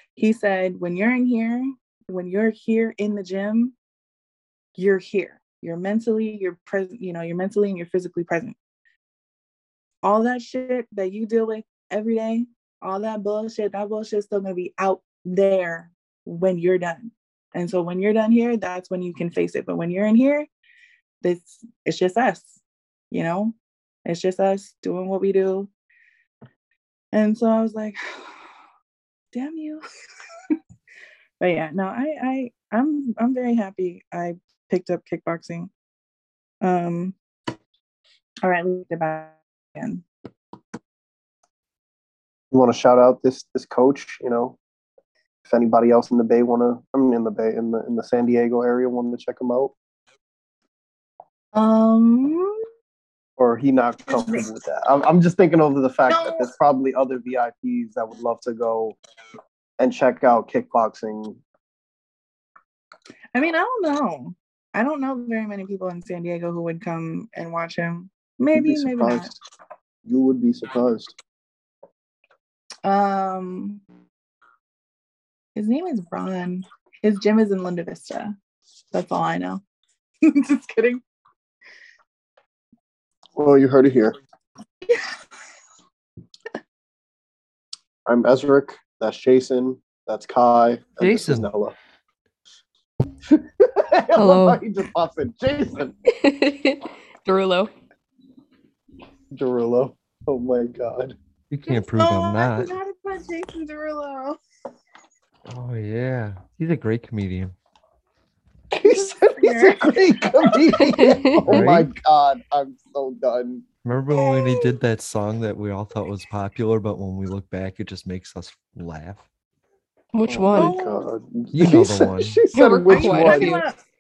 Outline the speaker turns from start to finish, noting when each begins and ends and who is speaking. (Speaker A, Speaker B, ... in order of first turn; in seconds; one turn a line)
Speaker A: 0.2-3.7
Speaker A: 4.8-8.6
Speaker A: 10.0-20.5
Speaker A: 21.2-23.6
Speaker A: 24.1-25.7
Speaker A: 27.1-28.0
Speaker A: 29.3-29.8
Speaker A: 31.4-35.7
Speaker A: 36.6-37.1
Speaker A: 38.4-40.0
Speaker B: 42.5-44.6
Speaker B: 45.5-49.7
Speaker A: 51.5-52.5
Speaker B: 53.4-59.0
Speaker A: 54.1-54.4
Speaker A: 56.1-56.5
Speaker B: 59.8-61.4
Speaker A: 63.3-69.3
Speaker B: 68.5-69.4
Speaker B: 70.0-71.2
Speaker A: 72.8-73.8
Speaker A: 75.5-78.4
Speaker A: 78.9-79.6
Speaker A: 80.2-81.0
Speaker B: 83.4-84.2
Speaker B: 88.1-91.8
Speaker C: 91.0-91.5
Speaker B: 93.3-95.9
Speaker D: 94.2-94.6
Speaker D: 96.1-97.7
Speaker B: 99.3-101.2
Speaker C: 101.5-102.7
Speaker A: 101.7-104.4
Speaker C: 105.5-107.6
Speaker B: 108.7-113.7
Speaker A: 108.9-110.0
Speaker D: 110.8-111.4
Speaker C: 111.5-111.9
Speaker C: 113.8-119.3
Speaker A: 114.2-114.6
Speaker D: 120.1-120.7
Speaker B: 120.3-123.6
Speaker A: 120.5-121.0
Speaker C: 121.5-122.4
Speaker D: 122.5-123.6
Speaker A: 122.9-123.8